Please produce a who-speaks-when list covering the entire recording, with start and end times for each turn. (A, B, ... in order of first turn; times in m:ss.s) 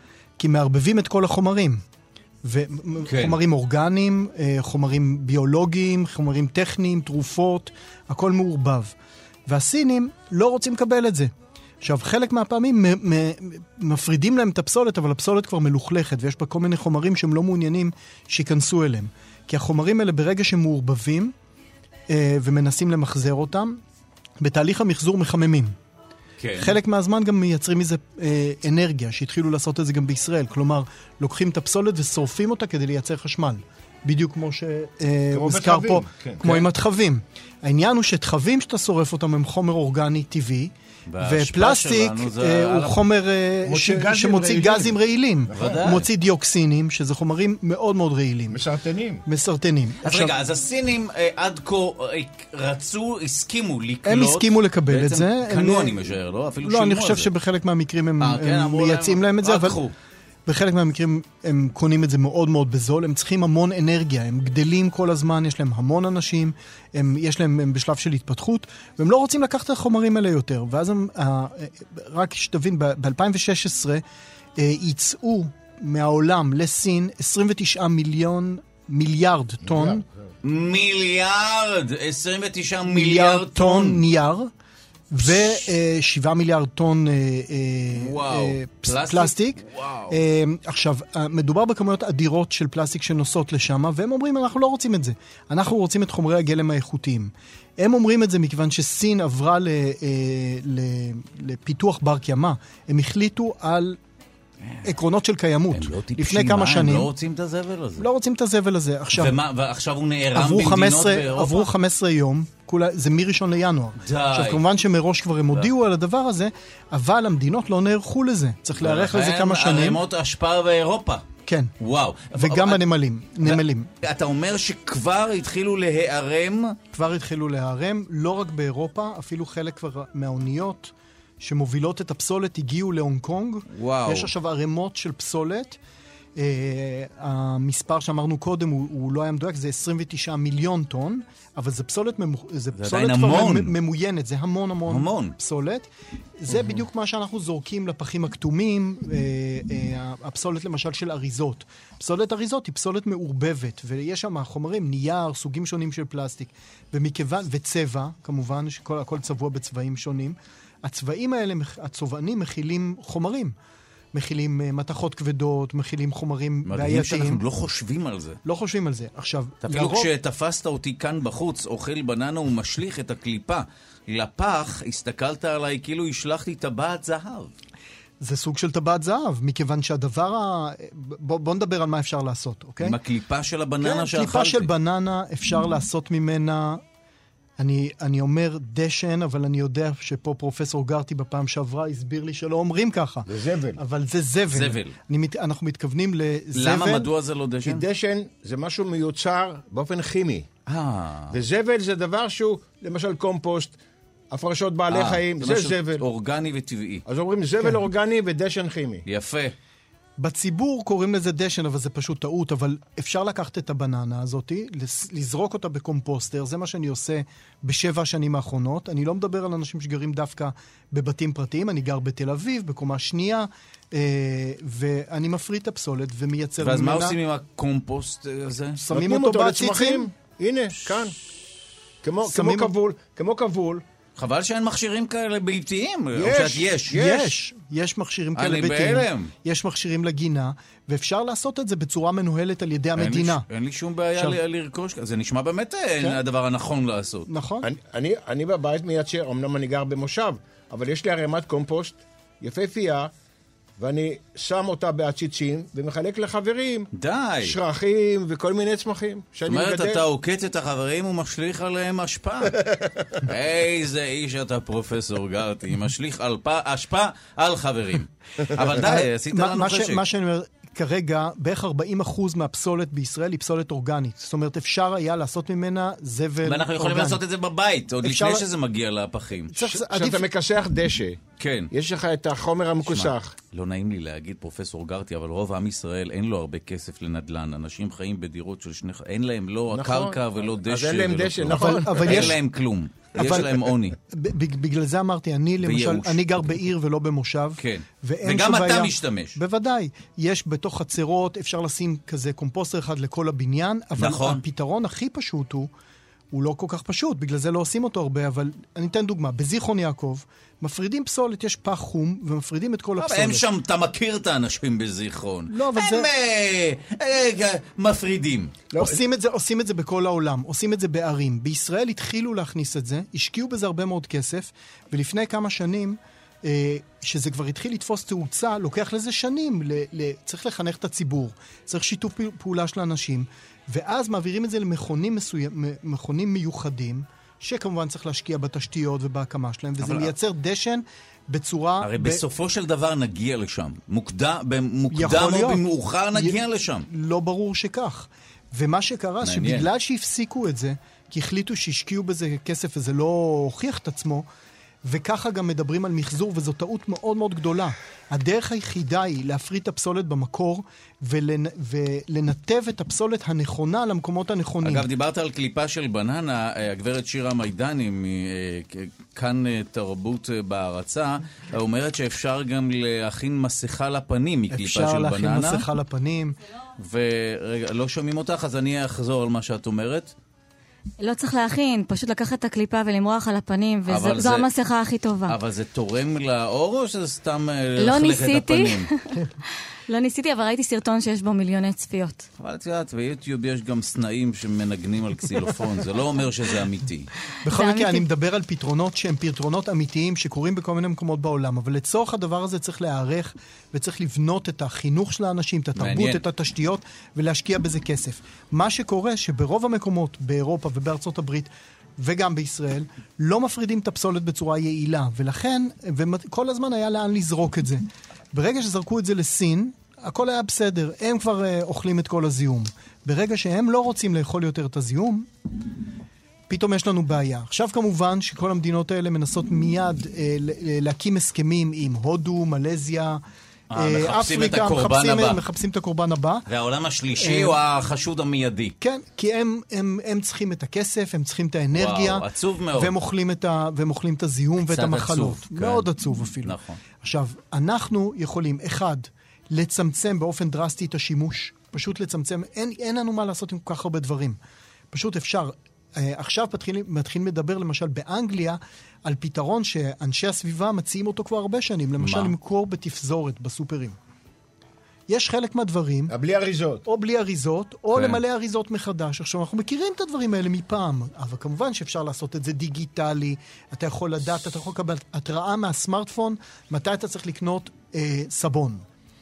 0:00.4-0:01.8 A
0:02.4-0:08.9 A
0:03.0-0:03.4 B
0:09.5-0:21.3 A
0:22.1-0:23.8 A
0:24.4-0:25.8 A
0:26.4-0:26.8 B
0:26.6-0:48.6 A
0:35.3-0:36.6 C
0:41.1-0:43.0 B
0:43.6-0:46.0 C
0:45.5-0:46.0 B
0:48.5-0:49.2 C
0:49.2-0:50.4 A
0:50.0-0:57.3 B
0:54.0-0:56.0 A
0:56.6-0:59.8 A
0:58.2-0:59.9 B
1:00.4-1:14.0 A
1:14.6-1:20.0 A
1:19.6-1:20.0 C
1:20.4-1:24.0 B
1:22.9-1:24.5 A
1:25.1-1:44.0 A
1:27.9-1:30.2 B
1:44.8-1:47.1 A
1:45.7-1:48.1 B
1:48.0-1:49.4 A
1:49.1-1:51.7 B
1:50.3-2:00.0 A
1:54.0-1:54.6 B
1:58.8-2:01.2 B
2:01.4-2:01.7 A
2:01.8-2:02.8 B
2:02.3-2:03.9 A
2:03.4-2:06.8 B
2:06.9-2:15.8 A
2:13.7-2:14.3 B
2:16.4-2:25.9 A
2:22.7-2:23.7 B
2:24.9-2:25.3 B
2:26.4-2:43.5 A
2:44.1-2:47.4 A
2:46.6-2:48.4 B
2:48.4-2:50.1 A
2:49.6-2:57.5 B
2:58.2-3:03.0 A
3:02.8-3:04.7 B
3:03.8-3:06.8 A
3:07.6-3:17.1 A
3:13.2-3:13.8 C
3:14.5-3:14.9 B
3:16.5-3:17.8 B
3:17.6-3:20.5 C
3:20.7-3:21.3 B
3:21.3-3:23.8 C
3:24.3-3:26.0 C
3:24.9-3:27.0 B
3:27.0-3:29.0 C
3:29.0-3:29.5 B
3:30.2-3:47.2 A
3:46.6-3:48.8 B
3:48.8-3:50.1 A
3:48.9-3:51.2 C
3:52.0-3:53.8 C
3:52.2-3:52.7 A
3:54.2-3:57.0 B
3:56.1-3:57.3 C
3:56.9-4:03.4 A
3:58.4-3:59.3 B
4:02.9-4:07.3 B
4:07.3-4:07.7 A
4:07.6-4:13.1 C
4:13.8-4:16.9 C
4:16.9-4:17.6 B
4:17.4-4:20.0 C
4:19.5-4:22.6 B
4:23.1-4:30.0 B
4:28.6-4:37.2 A
4:36.4-4:39.6 B
4:38.0-4:38.5 A
4:39.5-4:40.2 A
4:39.6-4:43.3 C
4:41.4-4:41.7 B
4:42.8-4:54.0 B
4:49.7-4:52.4 C
4:51.5-4:52.4 A
4:53.1-5:05.7 A
4:55.6-4:56.2 B
4:57.6-4:59.4 B
5:04.0-5:04.4 B
5:06.3-5:13.4 A
5:13.0-5:18.5 B
5:15.5-5:16.1 A
5:18.7-5:19.0 C
5:18.8-5:42.2 A
5:39.8-5:40.1 B
5:41.8-5:46.9 B
5:44.9-5:45.6 A
5:46.1-5:54.2 A
5:49.2-5:49.7 B
5:54.8-6:04.9 A
6:04.6-6:15.7 B
6:14.5-6:16.4 A
6:16.8-6:20.1 B
6:21.0-6:25.4 D
6:23.9-6:24.5 B
6:25.3-6:28.9 B
6:27.8-6:29.2 D
6:29.9-6:32.3 D
6:32.4-6:37.1 B
6:37.4-7:05.3 A
6:37.5-6:38.0 D
6:45.8-6:46.2 B
7:06.5-7:13.2 A
7:13.7-7:15.4 B
7:13.7-7:16.5 A
7:16.5-7:18.8 B
7:17.2-7:17.6 A
7:18.8-7:34.4 A
7:21.7-7:22.9 B
7:24.6-7:25.9 B
7:26.4-7:26.8 B
7:34.9-7:44.0 A
7:42.0-7:42.3 B
7:45.1-7:46.1 A
7:46.1-7:46.8 C
7:46.8-7:58.8 A
7:47.9-7:48.2 B